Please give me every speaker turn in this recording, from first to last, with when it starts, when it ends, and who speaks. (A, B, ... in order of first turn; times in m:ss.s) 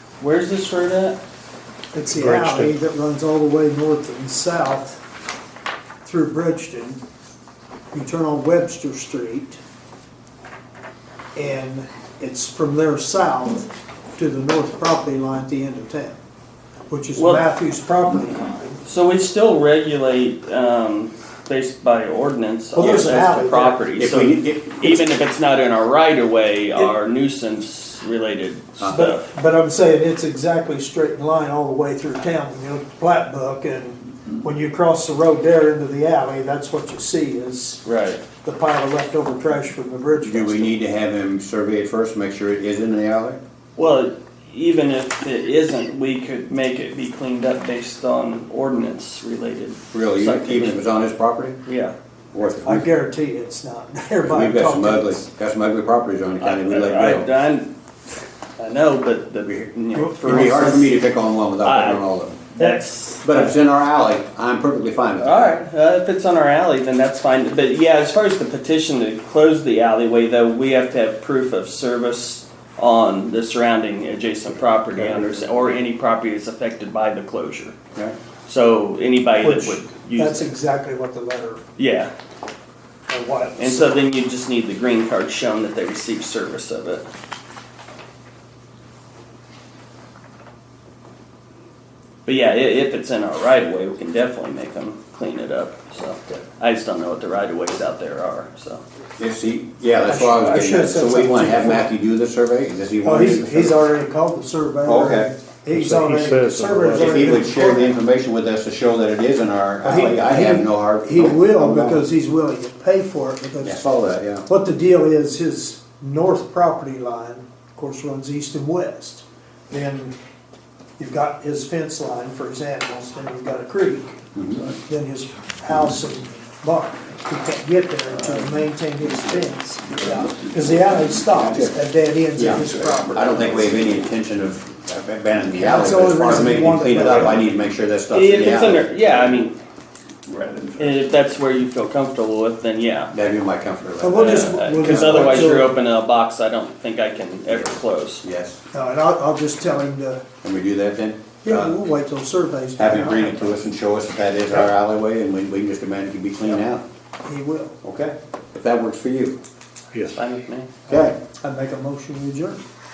0:00.2-0:01.2 A
0:01.9-0:05.0 B
0:02.2-0:02.7 C
0:06.0-0:07.0 B
0:07.9-0:09.6 B
0:11.3-0:16.2 B
0:16.9-0:18.8 B
0:17.1-0:17.4 A
0:18.8-0:29.3 A
0:22.7-0:23.8 B
0:22.8-0:23.4 D
0:24.0-0:25.2 D
0:28.9-0:37.8 B
0:37.8-0:38.2 A
0:38.4-0:40.8 B
0:40.2-0:43.4 D
0:43.8-0:50.8 A
0:49.9-0:51.6 D
0:51.6-0:51.9 A
0:52.3-0:52.9 D
0:52.6-0:55.2 B
0:54.2-0:57.3 D
0:56.4-0:57.7 A
0:58.6-1:01.1 A
0:59.4-1:02.4 D
0:59.9-1:00.6 B
1:01.6-1:03.5 A
1:02.6-1:02.8 B
1:03.2-1:05.5 D
1:05.2-1:17.8 A
1:14.9-1:15.6 D
1:18.4-1:20.5 A
1:19.4-1:21.6 B
1:21.8-1:22.1 A
1:23.1-1:24.0 B
1:23.6-1:27.0 A
1:32.2-1:38.8 A
1:39.2-1:43.8 D
1:40.0-1:41.9 B
1:43.0-1:48.0 B
1:44.8-1:45.3 D
1:45.7-1:47.2 C
1:46.9-1:52.0 D
1:49.8-1:53.8 B
1:53.6-1:54.5 D
1:54.4-2:00.1 B
2:01.0-2:13.7 B
2:04.3-2:04.7 D
2:11.4-2:11.7 D
2:12.4-2:18.9 D
2:15.5-2:17.5 B
2:18.1-2:19.6 A
2:20.3-2:23.1 A
2:23.1-2:25.6 D
2:24.0-2:25.7 B
2:24.1-2:28.2 A
2:27.5-2:28.6 D
2:28.7-2:30.2 B
2:30.4-2:31.7 D
2:31.4-2:33.6 B
2:32.8-2:36.8 D
2:37.2-2:37.8 B
2:37.8-2:39.4 D
2:39.9-2:40.2 C
2:40.1-2:40.7 A
2:40.9-2:41.2 D
2:40.9-2:42.6 B